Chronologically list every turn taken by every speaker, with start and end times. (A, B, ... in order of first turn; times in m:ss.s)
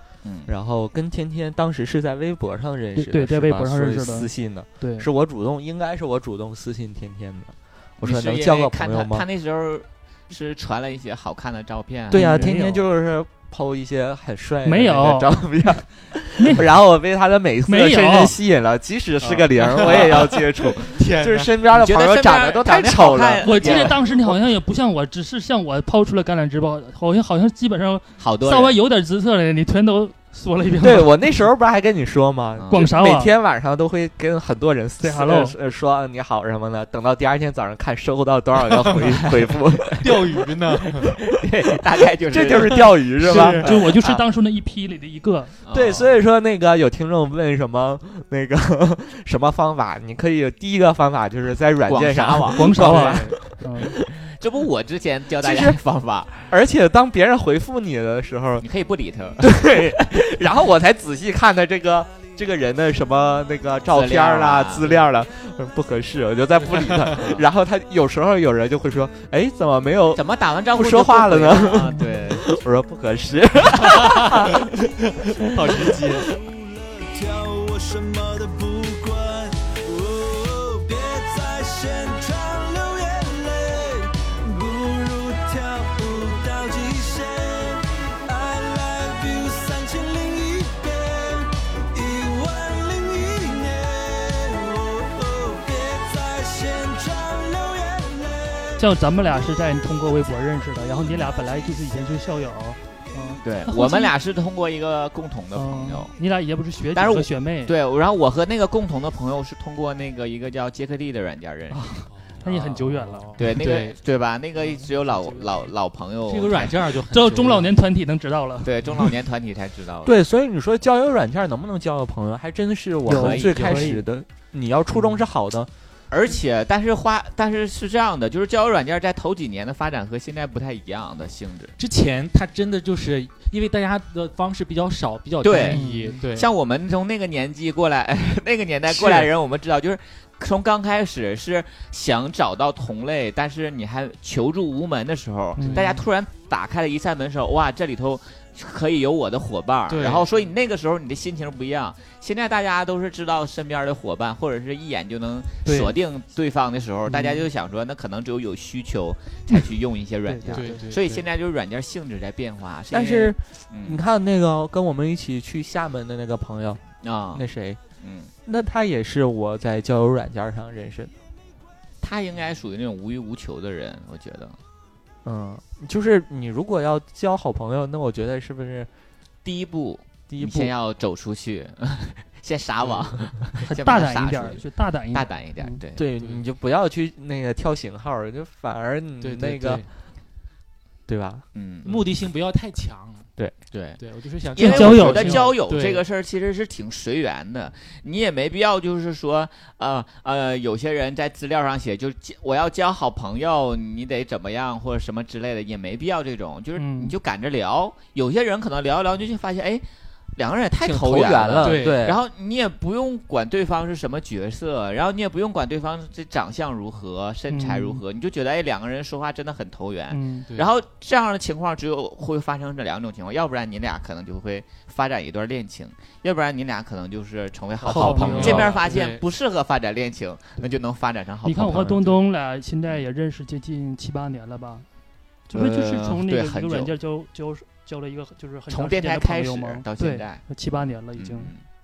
0:00.2-0:00.5 A
0:00.4-0:09.2 B
0:03.0-0:05.1 C
0:08.0-0:12.4 A
0:12.1-0:24.0 B
0:12.1-0:12.8 C
0:14.6-0:15.4 C
0:16.4-0:16.7 C
0:17.7-0:18.4 C
0:19.2-0:20.0 A
0:19.6-0:21.6 D
0:21.7-0:24.0 A
0:23.4-0:31.1 C
0:28.2-0:28.8 A
0:30.8-0:40.3 B
0:32.6-0:32.9 A
0:32.7-0:33.3 C
0:35.0-0:35.6 C
0:39.0-0:39.5 A
0:40.0-0:41.1 D
0:41.3-0:44.2 A
0:42.3-0:43.7 B
0:42.8-0:43.7 D
0:43.3-0:45.5 C
0:45.6-0:46.1 A
0:45.7-0:53.4 B
0:51.8-0:53.0 A
0:52.6-0:53.9 C
0:52.8-0:53.3 D
0:54.2-0:56.5 A
0:55.4-0:55.8 B
0:56.5-0:58.6 B
0:58.6-1:00.2 A
0:59.4-1:14.8 B
1:03.9-1:05.0 A
1:06.6-1:07.2 D
1:07.1-1:07.5 A
1:10.1-1:12.5 A
1:13.8-1:14.4 D
1:15.4-1:16.3 D
1:15.7-1:16.0 B
1:16.2-1:38.6 E
1:38.8-1:44.1 C
1:43.4-1:46.1 A
1:45.5-1:47.7 C
1:46.9-1:51.8 A
1:51.7-1:53.4 C
1:52.1-1:54.0 D
1:53.4-1:56.9 A
1:54.6-1:55.7 D
1:56.3-1:57.7 D
1:57.1-1:58.7 C
1:58.6-2:00.1 A
2:00.0-2:05.7 B
2:03.1-2:04.0 C
2:03.1-2:03.9 A
2:06.1-2:11.8 A
2:11.8-2:16.5 D
2:15.4-2:44.0 A
2:15.7-2:16.2 C
2:18.9-2:19.3 D
2:25.6-2:26.0 C
2:25.6-2:25.9 D
2:29.9-2:30.3 D
2:35.6-2:35.9 C
2:37.1-2:37.4 C
2:40.3-2:40.9 C
2:40.5-2:41.2 D
2:42.9-2:46.8 B
2:47.0-2:47.5 A
2:47.3-2:47.8 B
2:48.0-2:48.3 A
2:48.4-2:51.1 B
2:52.0-2:54.6 A
2:55.2-2:58.9 B
2:59.4-3:06.0 A
3:00.3-3:00.7 B
3:02.8-3:03.1 D
3:03.6-3:05.8 C
3:06.0-3:09.8 B
3:09.2-3:09.8 D
3:11.1-3:11.4 B
3:11.5-3:12.1 A
3:11.8-3:13.3 D
3:13.7-3:29.8 A
3:14.0-3:16.0 D
3:14.6-3:15.5 C
3:26.8-3:27.1 C
3:30.4-3:52.2 A
3:30.8-3:32.2 B
3:31.6-3:32.0 D
3:37.5-3:38.0 C
3:40.1-3:40.5 C
3:47.8-3:49.2 D
3:47.8-3:48.7 B
3:47.9-3:48.8 C
3:51.4-3:54.9 C
3:55.5-4:01.5 C
3:55.5-3:56.9 A
3:58.7-4:01.6 A